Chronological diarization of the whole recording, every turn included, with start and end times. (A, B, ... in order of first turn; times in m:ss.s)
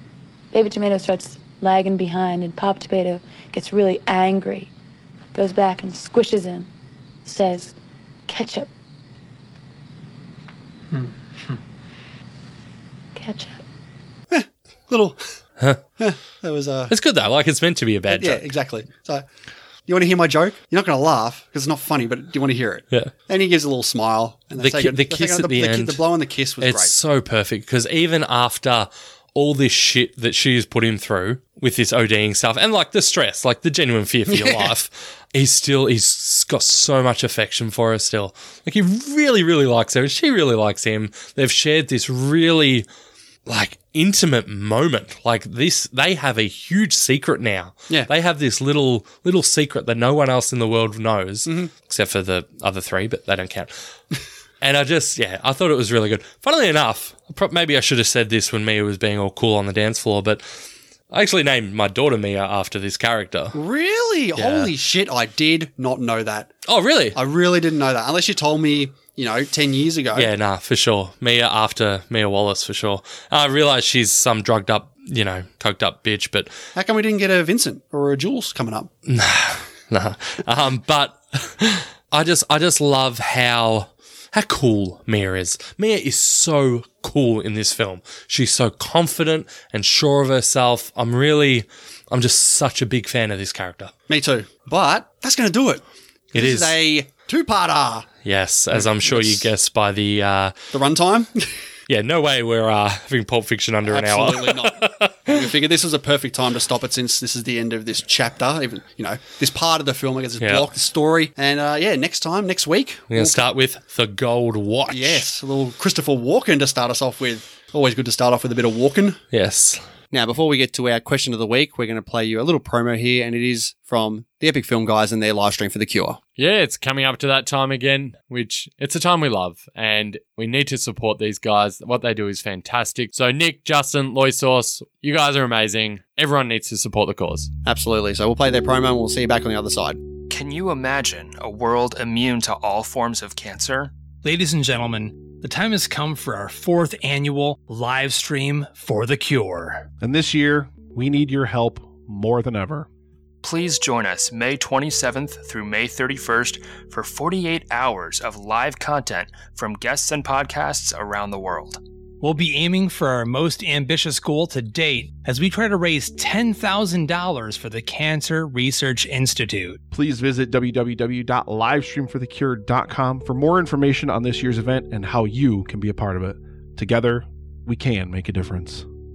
0:00.5-0:04.7 A
0:05.3-0:06.7 A
0:07.2-0:07.7 A
0:08.3-0:08.7 A
0:13.2-0:13.6 A
0:14.3-0:15.2 B
0:16.0-0:16.9 B
0:16.9-0:18.4 C
0:18.1-0:19.3 B
0:19.9-0:26.9 B
0:24.6-0:26.0 C
0:26.6-0:42.9 C
0:34.3-0:34.7 B
0:43.5-0:53.7 C
0:51.5-0:51.7 B
0:54.6-1:00.4 C
1:01.1-1:03.6 C
1:03.5-1:06.5 B
1:04.4-1:04.7 C
1:06.7-1:07.2 C
1:07.2-1:10.3 B
1:10.2-1:16.5 C
1:16.8-1:18.9 B
1:19.1-1:33.9 C
1:34.1-1:38.1 B
1:36.4-1:36.8 C
1:38.2-1:40.6 C
1:38.7-1:39.5 B
1:40.7-1:41.5 B
1:41.9-1:45.4 C
1:43.8-1:53.5 B
1:50.4-1:50.7 C
1:53.1-1:55.3 C
1:54.9-1:59.2 B
1:59.3-1:59.8 C
2:00.1-2:06.2 B
2:06.4-2:17.5 D
2:17.6-2:20.0 B
2:20.3-2:23.9 E
2:24.2-2:29.8 F
2:30.0-2:32.9 G
2:33.4-2:41.8 E
2:42.2-2:49.8 F
2:49.9-2:58.8 G